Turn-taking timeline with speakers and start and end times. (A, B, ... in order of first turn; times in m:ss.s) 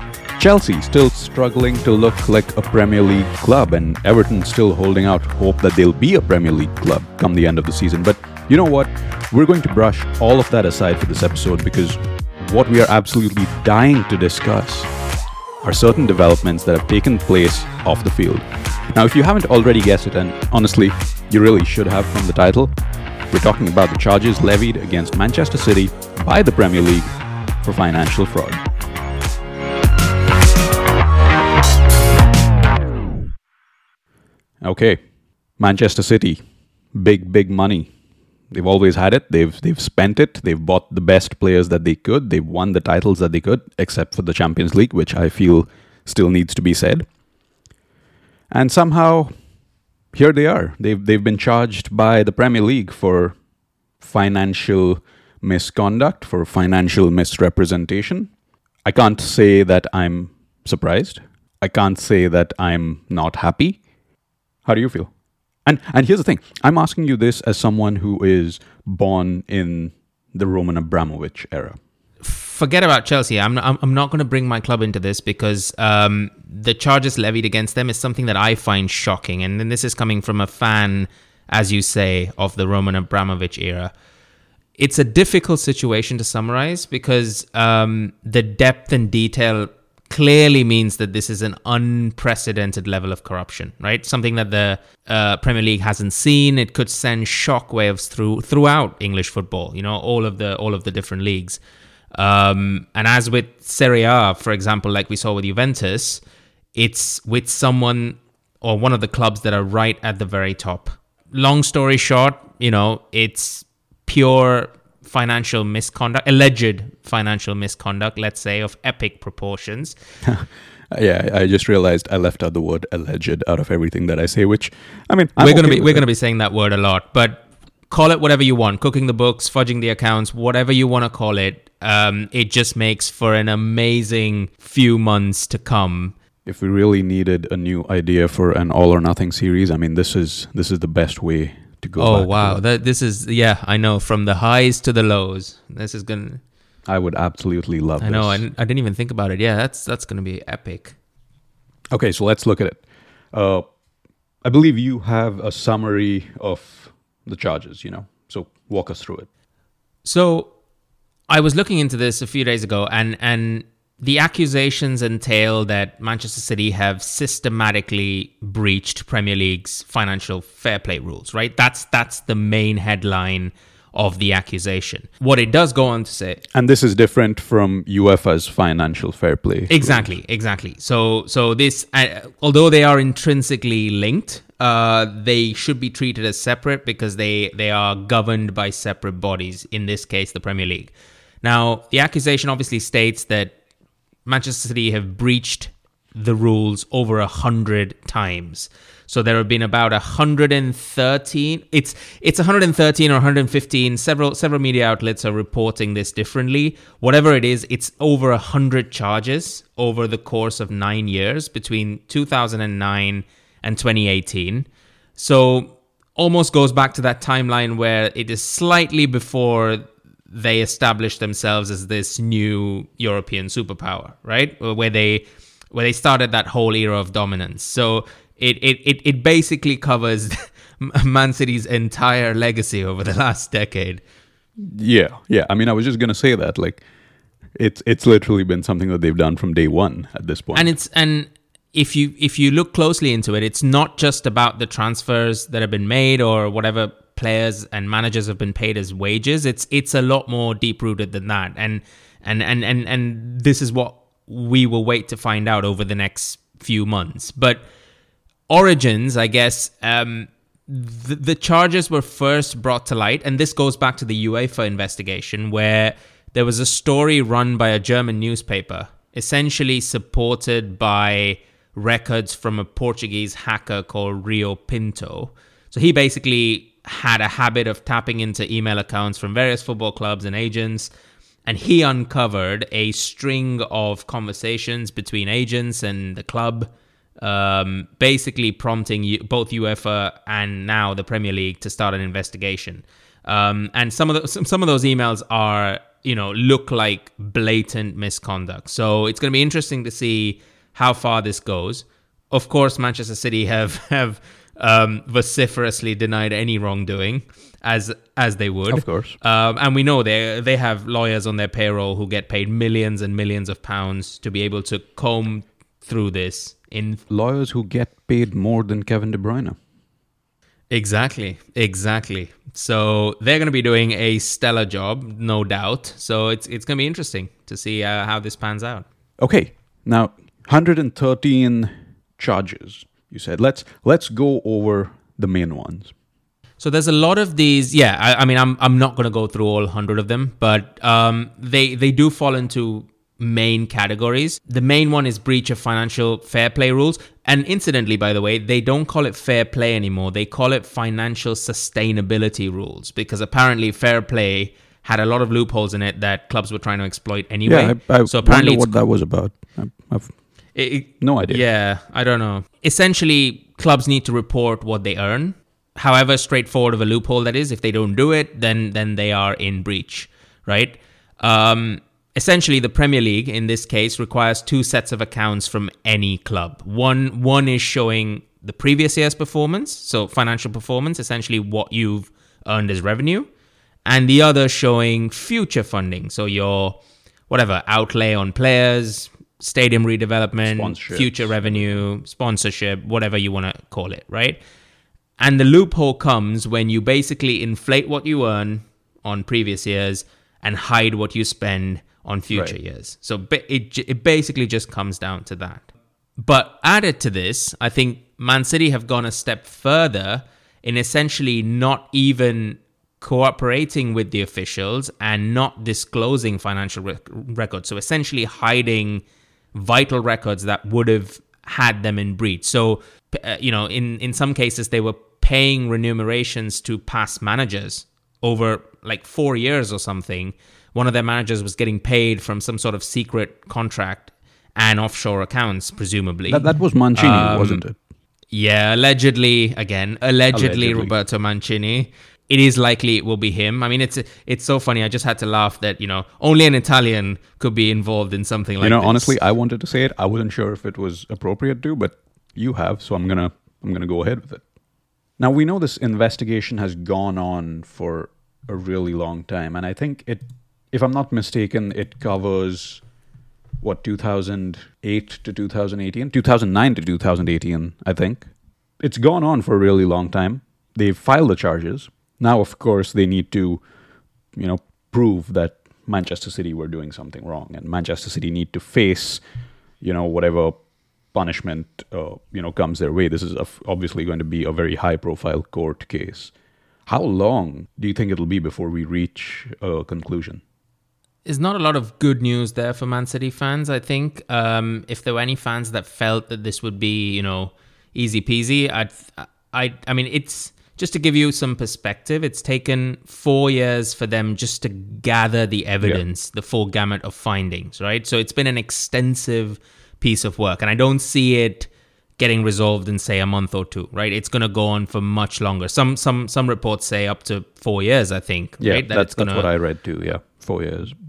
0:00.4-0:14.9 A
0:15.6-0:22.7 A
0:23.3-0:28.6 A
0:34.6-0:35.0 A
0:35.6-0:36.4 A
0:36.9-0:37.9 A
0:38.5-0:47.0 A
0:48.5-0:49.3 A
0:50.1-0:53.4 A
0:54.0-0:58.3 A
0:58.8-1:03.8 A
1:04.6-1:05.1 A
1:05.6-1:11.8 A
1:12.2-1:23.9 B
1:24.8-1:41.6 B
1:42.1-1:46.2 B
1:46.7-2:00.0 B
2:00.2-2:06.0 A
2:05.4-2:16.1 B
2:16.4-2:22.6 A
2:22.0-2:26.4 B
2:26.8-2:28.4 A
2:28.0-2:31.0 B
2:31.9-2:33.6 A
2:34.4-2:39.3 A
2:40.0-2:40.5 B
2:41.3-2:56.4 B
2:56.5-3:00.1 A
2:59.7-3:13.6 B
3:14.2-3:54.0 B
3:54.6-3:56.8 A
3:57.5-4:00.7 A
4:00.5-4:17.6 B
4:18.5-4:40.9 B
4:41.4-5:17.0 B
5:08.7-5:09.2 A
5:17.1-5:19.6 A
5:20.7-5:28.8 B
5:29.2-5:35.9 A
5:36.6-5:58.7 B
5:57.4-6:00.1 A
6:00.5-6:23.3 B
6:01.0-6:01.4 A
6:23.8-6:26.8 B
6:27.3-6:34.4 B
6:30.5-6:31.8 A
6:35.2-6:45.7 B
6:46.2-7:17.6 B
7:16.3-7:17.8 A
7:18.3-7:29.2 B
7:20.3-7:20.9 A
7:28.6-7:34.4 A
7:35.2-7:42.8 A
7:43.6-7:48.3 A
7:48.8-7:53.6 A
7:54.3-7:59.2 A
7:59.8-8:00.6 A
8:01.1-8:06.3 A
8:06.9-8:10.4 A
8:11.2-8:39.5 B
8:38.6-8:40.9 A